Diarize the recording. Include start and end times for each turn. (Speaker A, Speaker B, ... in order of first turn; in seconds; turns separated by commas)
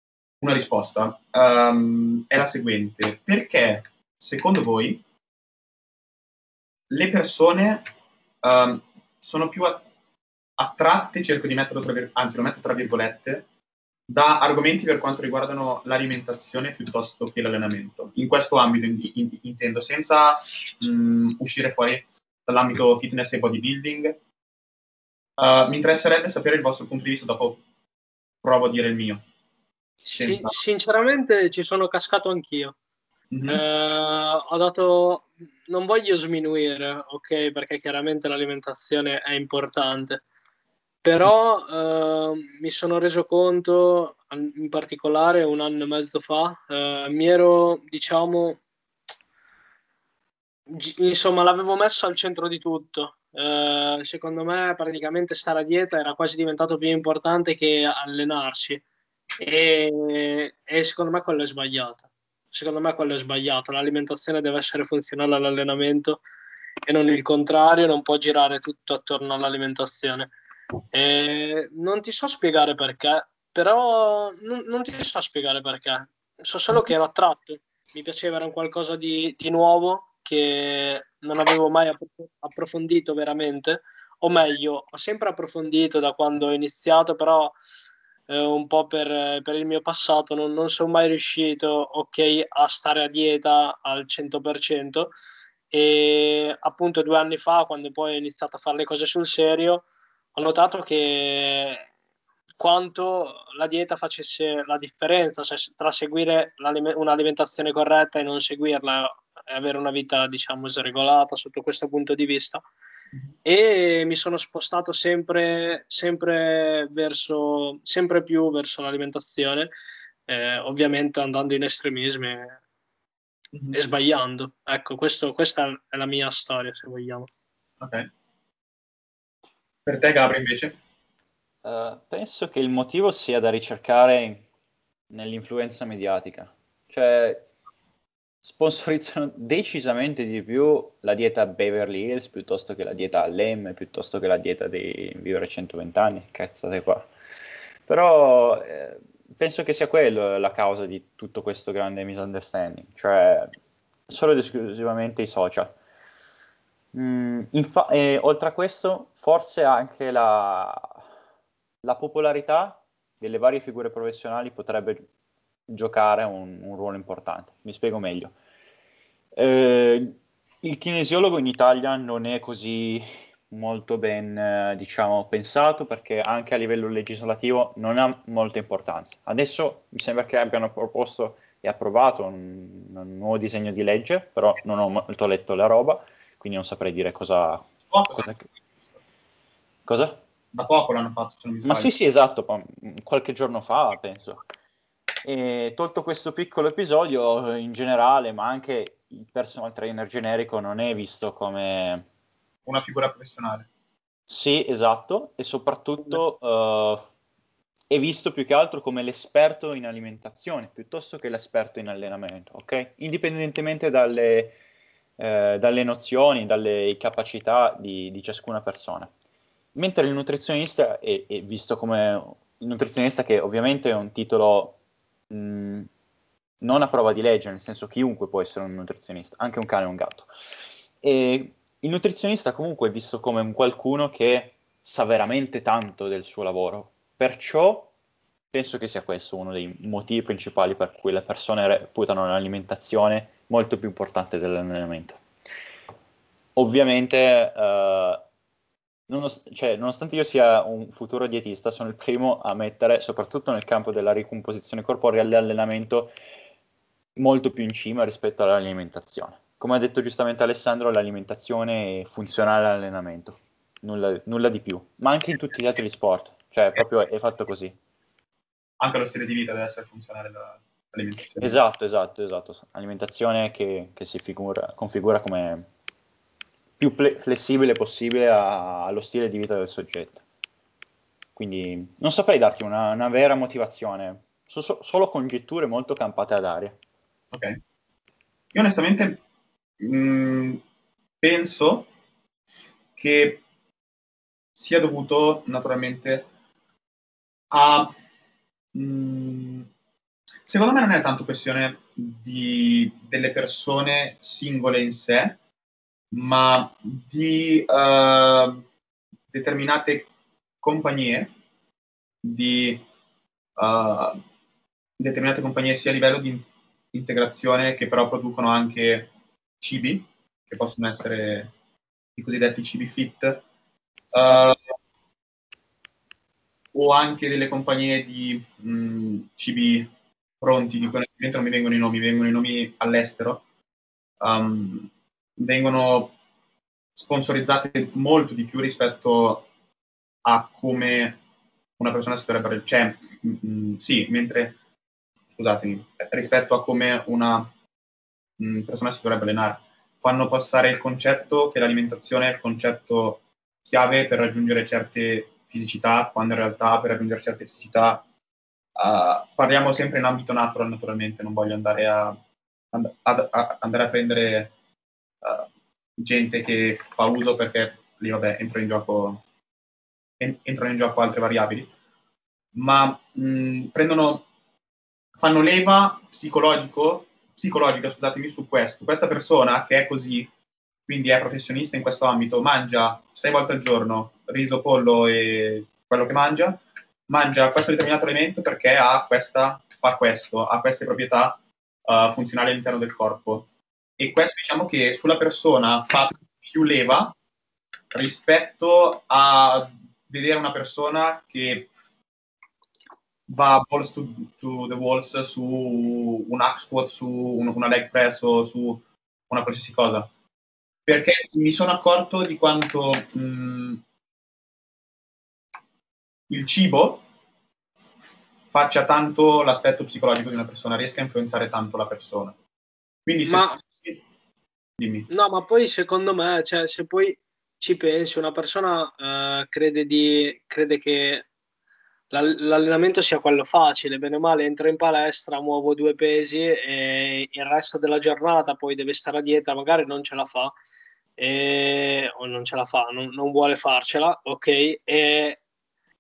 Speaker A: 0.4-5.0, Speaker A: 6.9-7.8, Speaker A: 8.4-9.9, Speaker A: 10.6-13.5, Speaker A: 14.1-24.2, Speaker A: 25.4-27.6, Speaker A: 28.4-29.2, Speaker B: 30.1-32.8, Speaker A: 30.1-30.6, Speaker A: 33.3-33.6, Speaker B: 33.5-40.2, Speaker B: 41.0-48.6, Speaker B: 50.7-58.8, Speaker B: 59.4-66.2, Speaker B: 66.9-70.3, Speaker B: 70.9-87.6, Speaker B: 88.3-95.1, Speaker B: 95.7-101.9, Speaker B: 102.6-112.6, Speaker B: 113.5-119.7, Speaker B: 120.3-122.6, Speaker B: 123.7-127.3, Speaker A: 127.8-128.1, Speaker A: 129.9-130.8, Speaker C: 131.6-134.4, Speaker C: 135.1-137.4, Speaker C: 138.4-147.1, Speaker C: 147.9-153.5, Speaker C: 154.1-155.8, Speaker C: 156.9-161.0, Speaker C: 161.8-165.1, Speaker C: 165.7-168.3, Speaker C: 169.4-188.4, Speaker A: 187.9-188.3, Speaker C: 189.9-190.2, Speaker A: 190.5-191.9, Speaker C: 191.7-194.4, Speaker C: 195.2-202.1, Speaker A: 202.7-203.7, Speaker C: 204.3-207.0, Speaker C: 207.9-214.6, Speaker C: 215.2-219.1, Speaker C: 219.8-224.8, Speaker C: 225.3-225.9, Speaker C: 226.6-230.3, Speaker C: 231.0-237.9, Speaker C: 238.5-245.2, Speaker C: 246.6-248.2, Speaker C: 249.1-256.1, Speaker C: 257.2-267.8, Speaker A: 268.8-271.6, Speaker C: 271.4-275.7, Speaker C: 276.8-280.2, Speaker C: 281.4-286.8, Speaker A: 287.3-287.6, Speaker A: 288.5-289.2, Speaker A: 289.8-290.6, Speaker A: 291.2-291.9, Speaker A: 293.0-293.4, Speaker A: 294.6-296.3, Speaker A: 297.5-297.9, Speaker A: 298.7-299.7, Speaker A: 300.5-305.4, Speaker A: 306.1-308.6, Speaker A: 309.3-310.1, Speaker A: 310.6-311.3, Speaker A: 312.2-312.8, Speaker A: 313.6-314.2, Speaker A: 315.0-319.1, Speaker A: 319.6-321.5, Speaker A: 322.2-323.4, Speaker A: 324.1-324.6, Speaker A: 326.7-329.9, Speaker A: 330.4-333.4, Speaker A: 334.2-336.1, Speaker A: 336.9-339.5, Speaker A: 340.2-341.2, Speaker A: 341.8-344.6, Speaker A: 345.4-347.5, Speaker A: 348.4-358.1, Speaker A: 358.8-362.2, Speaker A: 362.7-364.5, Speaker A: 365.2-369.2, Speaker A: 370.2-371.7, Speaker A: 372.6-374.3, Speaker A: 375.2-380.3, Speaker A: 380.9-393.5, Speaker A: 394.0-397.2, Speaker A: 397.9-401.7, Speaker A: 403.3-410.1, Speaker A: 410.9-413.8, Speaker A: 416.3-417.0, Speaker A: 418.5-422.4, Speaker A: 423.1-424.0, Speaker B: 423.3-423.6, Speaker A: 424.8-425.1, Speaker B: 425.1-431.3, Speaker B: 432.1-440.5, Speaker B: 441.2-445.4